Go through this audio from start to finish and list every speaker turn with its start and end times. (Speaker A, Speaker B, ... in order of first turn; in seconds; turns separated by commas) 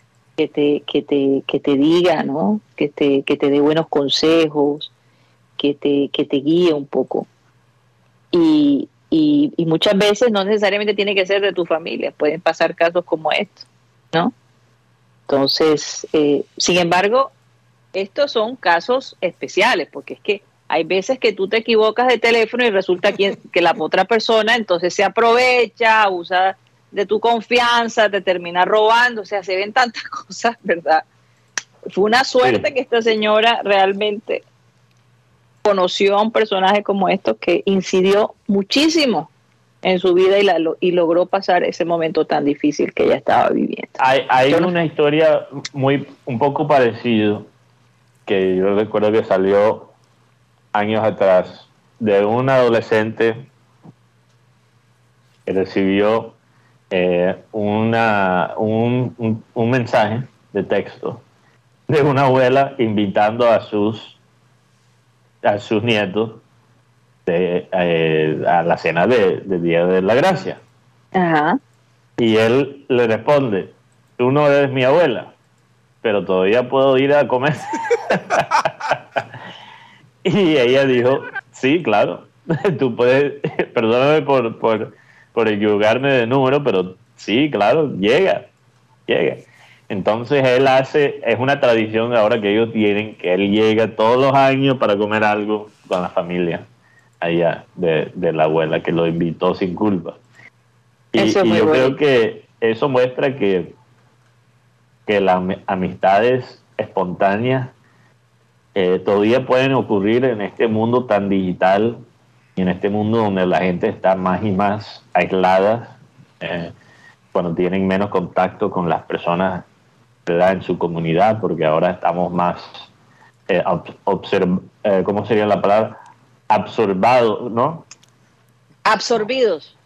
Speaker A: 0.4-4.9, Speaker A: 5.6-7.3, Speaker A: 8.3-14.3, Speaker A: 15.3-17.3, Speaker A: 17.9-31.1, Speaker A: 31.9-34.5, Speaker B: 32.4-32.7, Speaker A: 35.6-39.3, Speaker A: 39.8-44.0, Speaker B: 44.0-47.5, Speaker A: 44.5-44.7, Speaker B: 48.3-49.9, Speaker B: 50.7-53.5, Speaker B: 55.5-56.4, Speaker B: 56.9-61.2, Speaker B: 61.9-64.2, Speaker B: 65.4-66.4, Speaker B: 67.3-70.6, Speaker A: 71.2-71.6, Speaker B: 72.2-75.3, Speaker B: 76.0-79.2, Speaker B: 80.2-88.5, Speaker B: 89.1-96.7, Speaker B: 97.2-100.2, Speaker B: 101.1-103.7, Speaker A: 101.2-102.0, Speaker B: 105.1-107.7, Speaker B: 108.8-112.0, Speaker B: 112.6-116.7, Speaker B: 117.3-119.7, Speaker B: 120.3-122.9, Speaker B: 123.5-126.0, Speaker B: 126.5-127.9, Speaker A: 128.9-129.7